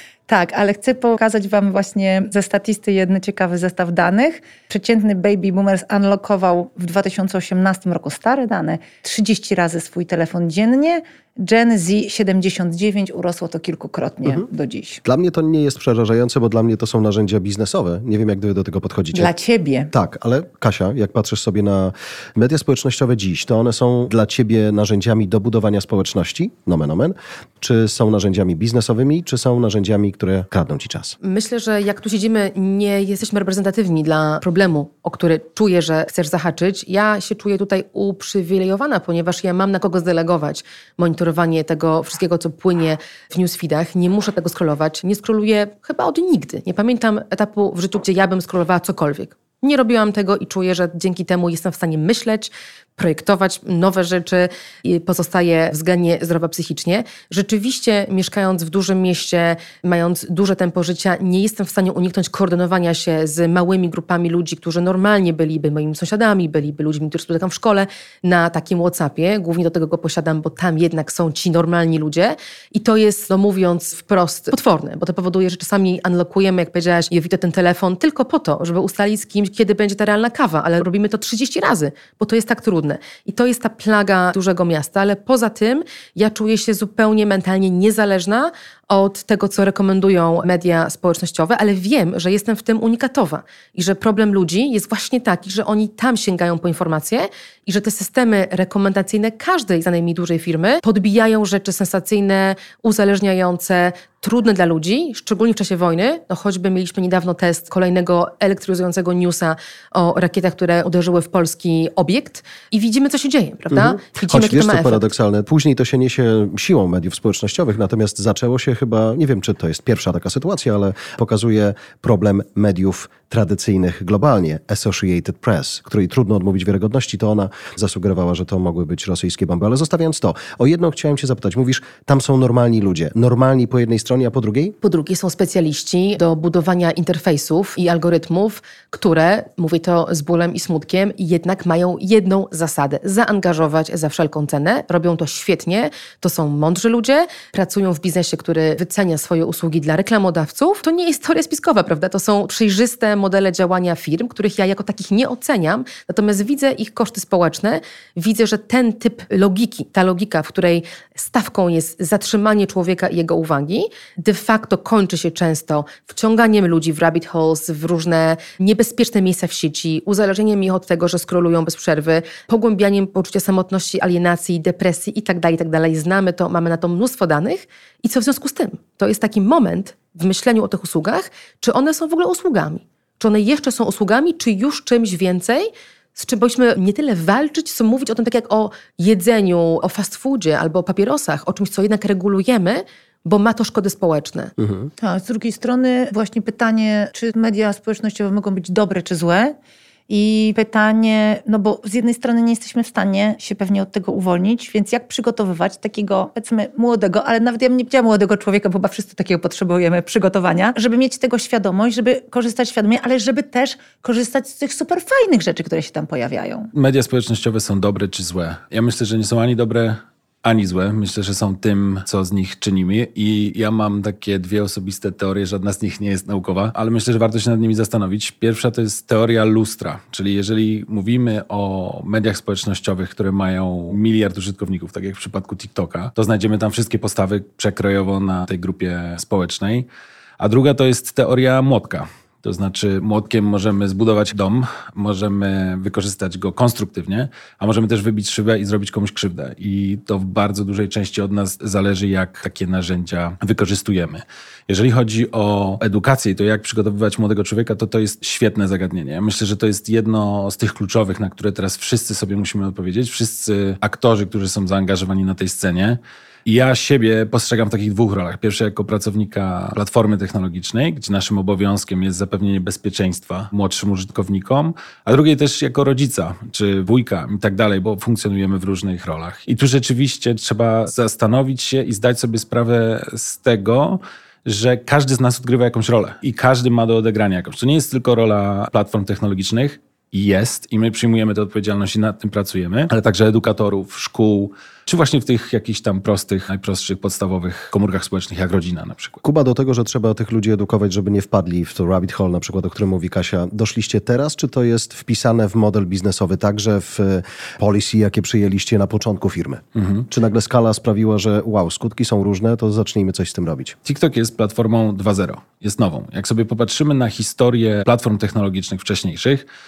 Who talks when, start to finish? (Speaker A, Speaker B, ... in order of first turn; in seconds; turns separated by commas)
Speaker A: 0.3-15.0, Speaker B: 15.0-19.3, Speaker A: 19.1-19.9, Speaker B: 19.9-31.1, Speaker C: 31.2-115.1, Speaker B: 113.7-134.8, Speaker C: 134.8-194.5, Speaker B: 194.6-194.9, Speaker A: 195.0-199.5, Speaker A: 200.1-216.7, Speaker D: 216.7-239.8, Speaker D: 240.4-299.2, Speaker B: 299.2-313.8, Speaker D: 309.8-310.1, Speaker D: 313.8-319.4